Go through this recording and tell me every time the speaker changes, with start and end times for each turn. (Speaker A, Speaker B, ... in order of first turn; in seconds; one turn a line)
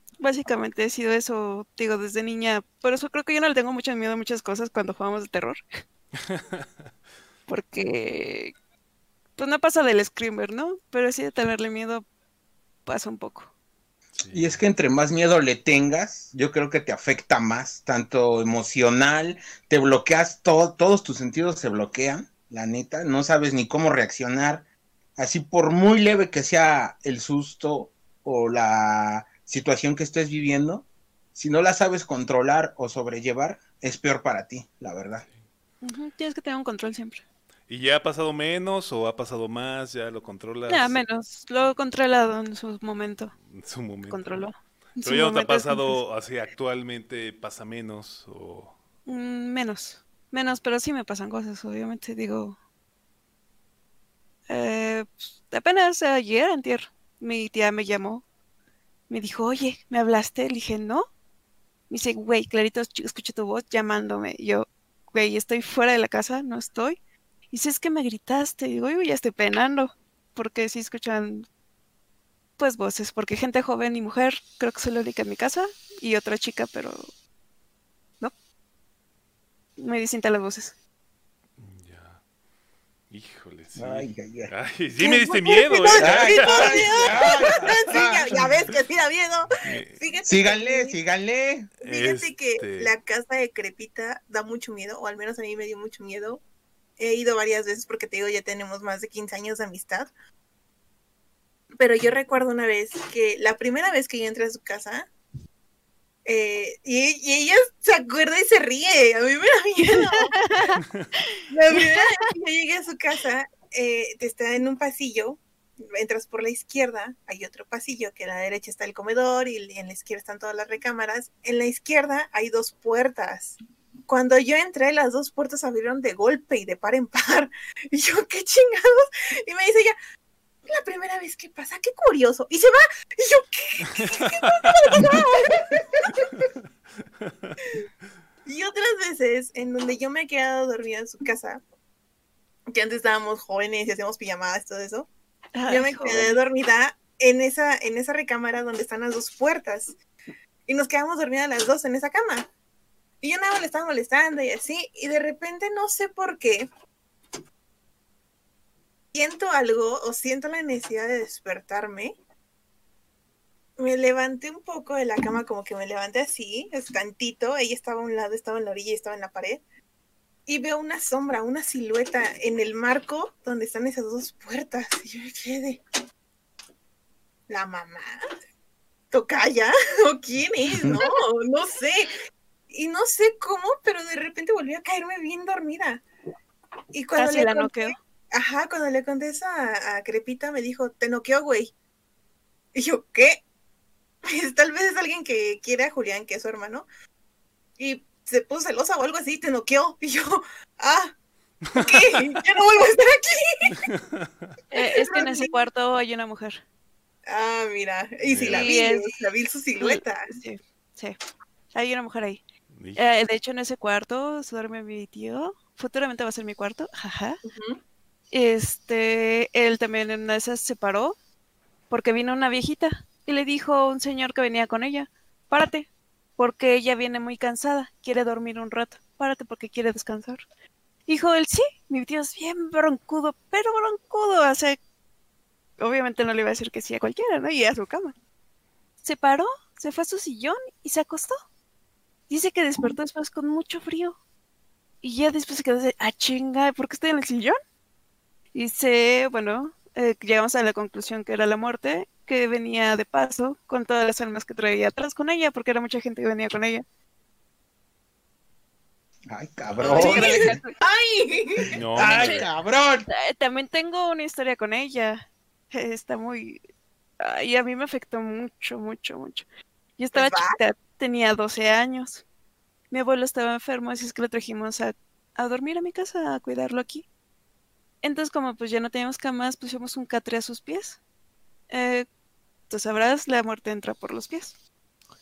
Speaker A: 0.2-5.8
Speaker A: 7.5-8.5
Speaker A: 9.4-12.0
Speaker A: 12.8-13.5
Speaker B: 14.2-14.6
Speaker C: 14.3-24.6
Speaker C: 25.2-35.2
Speaker A: 35.8-37.2
Speaker B: 37.7-41.0
Speaker A: 40.7-43.3
Speaker B: 43.5-44.4
Speaker A: 44.1-46.0
Speaker B: 45.0-48.7
Speaker A: 49.0-52.6
Speaker A: 54.5-58.2
Speaker A: 59.1-61.0
Speaker A: 61.9-67.0
Speaker A: 67.5-71.5
Speaker A: 72.6-77.0
Speaker A: 79.8-80.7
Speaker B: 81.6-82.2
Speaker B: 83.1-88.8
Speaker C: 83.8-84.5
Speaker D: 85.0-91.0
Speaker C: 86.0-88.5
Speaker B: 89.6-90.0
Speaker C: 90.2-91.7
Speaker B: 91.8-92.9
Speaker D: 91.8-96.4
Speaker D: 97.0-100.1
Speaker D: 101.8-105.1
Speaker D: 106.2-110.8
Speaker A: 110.2-110.8
Speaker D: 111.5-115.4
Speaker A: 111.7-112.2
Speaker D: 115.9-129.9
Speaker D: 130.7-136.3
Speaker B: 133.9-135.1
Speaker B: 137.2-137.6
Speaker D: 138.4-141.6
Speaker D: 142.7-145.1
Speaker A: 145.6-146.4
Speaker D: 145.7-149.9
Speaker D: 150.7-152.5
Speaker D: 153.2-156.7
Speaker D: 159.1-162.2
Speaker D: 163.8-169.6
Speaker D: 170.5-175.8
Speaker D: 177.5-178.2
Speaker D: 179.1-182.2
Speaker D: 182.7-186.0
Speaker D: 186.9-191.7
Speaker A: 187.2-187.9
Speaker D: 192.7-193.4
Speaker D: 194.3-196.8
Speaker D: 197.8-201.2
Speaker D: 201.7-203.9
Speaker B: 201.7-202.2
Speaker B: 203.8-204.3
Speaker A: 204.7-206.6
Speaker D: 204.7-205.6
Speaker D: 207.2-210.4
Speaker B: 208.2-208.7
Speaker A: 208.5-209.2
Speaker A: 209.8-211.2
Speaker A: 211.7-212.4
Speaker B: 212.7-213.0
Speaker A: 212.9-217.4
Speaker D: 217.4-217.8
Speaker A: 218.3-221.2
Speaker A: 221.9-230.4
Speaker A: 231.1-234.8
Speaker A: 235.8-238.1
Speaker A: 239.0-241.3
Speaker A: 242.3-244.2
Speaker A: 245.0-247.6
Speaker A: 248.5-256.8
Speaker C: 259.3-260.6
Speaker B: 259.7-260.1
Speaker A: 259.8-260.7
Speaker D: 259.8-261.7
Speaker B: 261.7-262.5
Speaker C: 261.9-263.1
Speaker A: 262.0-262.4
Speaker A: 263.1-266.6
Speaker A: 267.2-269.4
Speaker A: 270.0-272.2
Speaker D: 270.1-270.6
Speaker A: 272.9-277.1
Speaker A: 278.0-281.0
Speaker A: 281.7-282.1
Speaker A: 282.7-284.5